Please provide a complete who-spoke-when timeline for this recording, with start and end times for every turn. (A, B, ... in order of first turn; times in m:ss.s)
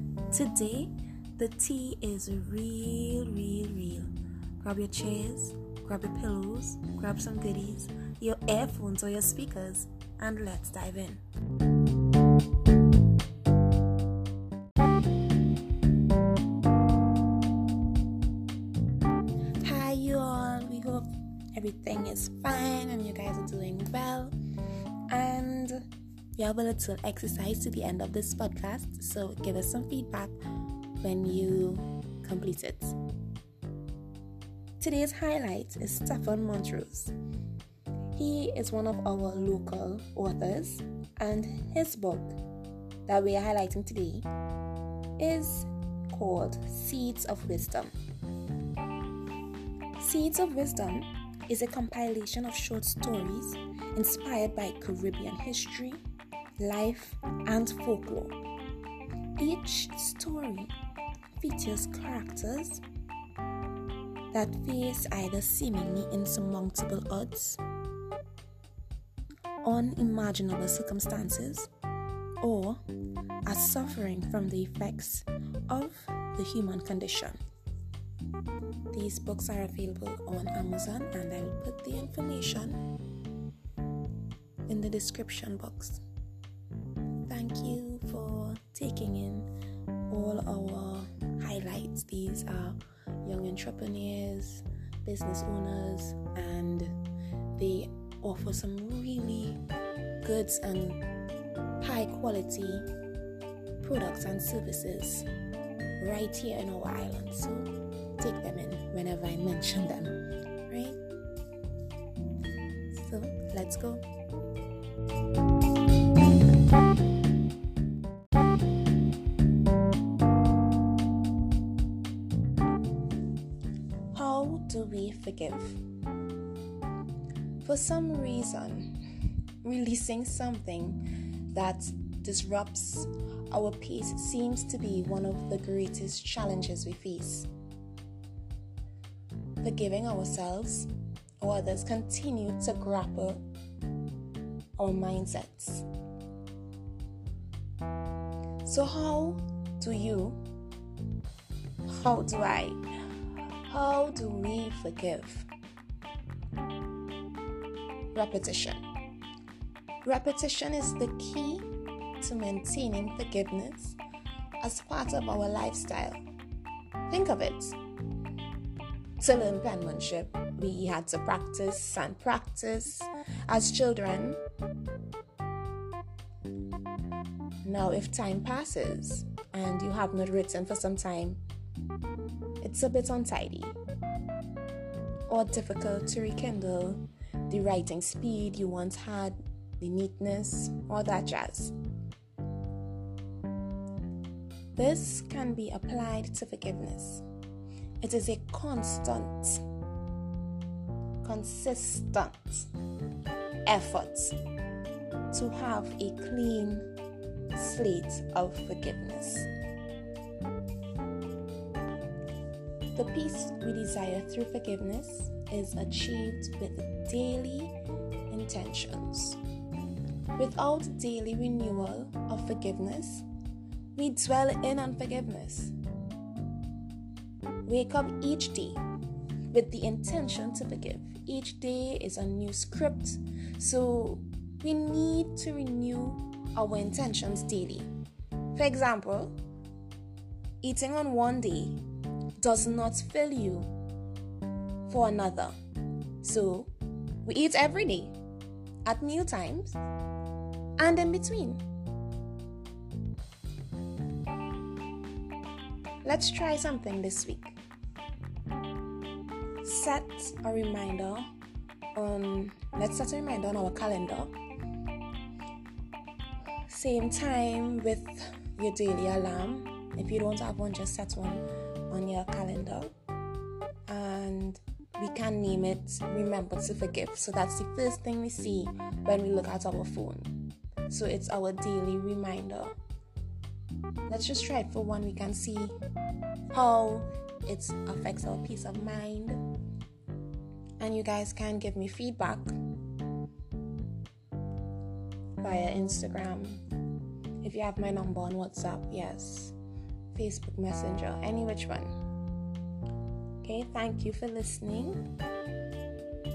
0:00.3-0:11.2 A
0:19.6-0:24.4 A
0:25.1-0:25.8 A
0:26.4-0:30.3 A
0:31.0-0:33.0 A
0:34.8-0:37.1 A
0:38.2-0:42.4 A
0:43.1-0:44.3 A
0:45.2-0:47.9 A
0:50.0-0:56.0 A
0:56.6-0:58.4 A
0:59.4-1:00.7 A
1:01.4-1:02.8 A
1:04.3-1:07.6 A
1:09.6-1:11.7 A
1:12.4-1:12.8 A
1:13.5-1:17.4 A
1:18.9-1:22.8 A
1:24.7-1:26.0 A
1:27.3-1:29.5 A
1:30.1-1:37.0 A
1:37.6-1:39.6 A
1:40.2-1:41.0 A
1:41.8-1:42.9 A
1:43.8-1:45.3 A
1:46.0-1:50.2 A
1:50.7-1:51.0 A
1:52.9-1:54.0 A
2:04.1-2:05.8 A
2:07.6-2:09.0 A
2:09.6-2:17.5 A
2:19.6-2:20.9 A
2:21.4-2:23.4 A
2:24.8-2:25.9 A
2:28.6-2:30.4 A
2:31.9-2:32.8 A
2:33.7-2:35.5 A
2:38.1-2:38.8 A
2:40.0-2:41.7 A
2:42.2-2:44.0 A
2:44.6-2:46.2 A
2:47.1-2:47.8 A
2:49.2-2:54.4 A
2:57.6-3:01.4 A
3:02.6-3:03.8 A
3:05.3-3:11.8 A
3:14.8-3:17.2 A
3:18.0-3:19.6 A
3:21.2-3:22.7 A
3:23.7-3:24.4 A
3:25.3-3:26.9 A
3:27.5-3:29.5 A
3:33.0-3:37.7 A
3:38.3-3:39.4 A
3:40.4-3:43.2 A
3:44.0-3:45.7 A
3:47.6-3:48.8 A
3:49.5-3:57.9 A
3:58.6-3:59.4 A
4:00.6-4:01.8 A
4:02.4-4:03.7 A
4:04.9-4:05.6 A
4:06.2-4:06.7 A
4:07.2-4:08.2 A
4:08.8-4:09.8 A
4:10.8-4:11.6 A
4:16.0-4:17.6 A
4:19.6-4:21.3 A
4:22.0-4:24.4 A
4:26.7-4:32.9 A
4:33.9-4:40.3 A
4:40.9-4:42.7 A
4:44.1-4:45.8 A
4:46.5-4:49.4 A
4:50.8-4:52.6 A
4:55.4-4:56.6 A
4:57.4-4:59.6 A
5:00.1-5:01.9 A
5:03.4-5:05.0 A